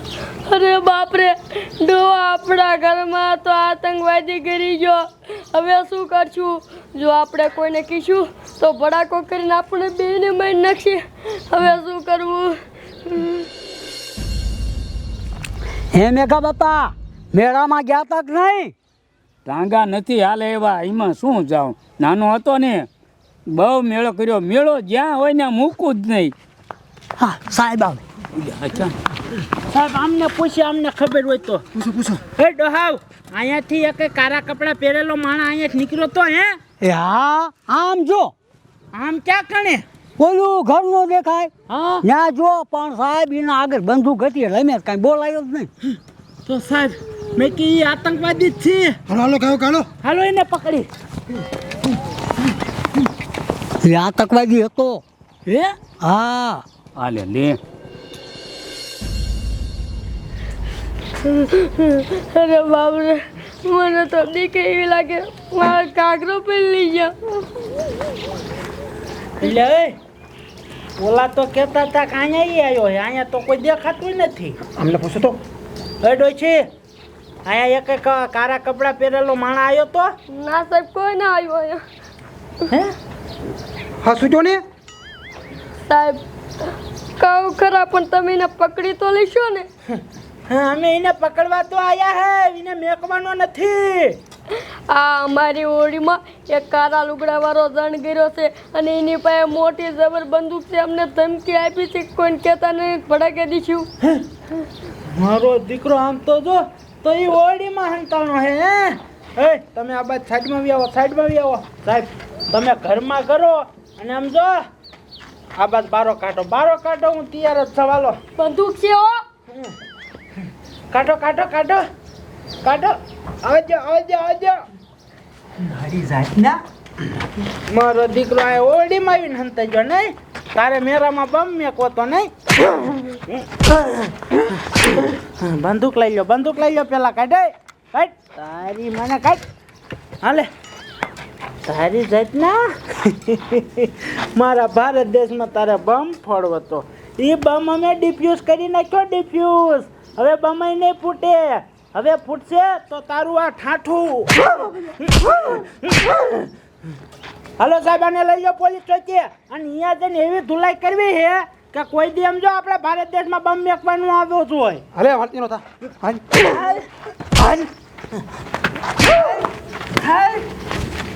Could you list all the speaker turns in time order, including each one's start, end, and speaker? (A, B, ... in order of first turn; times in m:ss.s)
0:00.5-0:05.0 A
0:05.5-0:12.5 A
0:13.1-0:13.5 A
0:15.9-0:18.7 B
0:19.4-0:22.9 C
0:23.5-0:26.3 C
0:27.2-0:28.0 B
0:28.4-0:28.9 C
0:29.6-0:31.6 D
0:31.8-0:32.2 E
0:32.3-0:36.6 D
0:36.8-0:38.3 B
0:38.9-0:39.8 D
0:40.2-0:45.7 B
0:41.7-0:42.0 D
0:46.4-0:49.0 D
0:49.1-0:49.8 E
0:50.0-0:50.9 D
0:53.8-0:55.0 B
0:55.5-0:55.7 D
0:55.9-0:56.6 B
0:57.0-0:57.6 C
1:01.3-1:07.4 A
1:09.4-1:10.0 D
1:11.0-1:14.6 D
1:14.8-1:15.4 E
1:16.0-1:16.7 D
1:17.4-1:20.1 D
1:20.3-1:21.8 A
1:24.0-1:24.6 E
1:25.9-1:26.2 A
1:27.2-1:29.7 A
1:30.5-1:34.2 D
1:34.9-1:43.9 A
1:45.0-1:54.6 D
1:55.6-1:58.2 D
1:58.4-1:59.1 A
2:00.9-2:01.9 D
2:02.6-2:04.6 D
2:05.6-2:06.6 D
2:07.6-2:12.3 D
2:13.0-2:19.4 D
2:20.2-2:20.5 D
2:21.6-2:36.5 D
2:37.6-2:44.8 D
2:45.0-2:46.3 E
2:46.4-2:46.9 D
2:49.1-2:49.4 D
2:50.0-2:50.4 D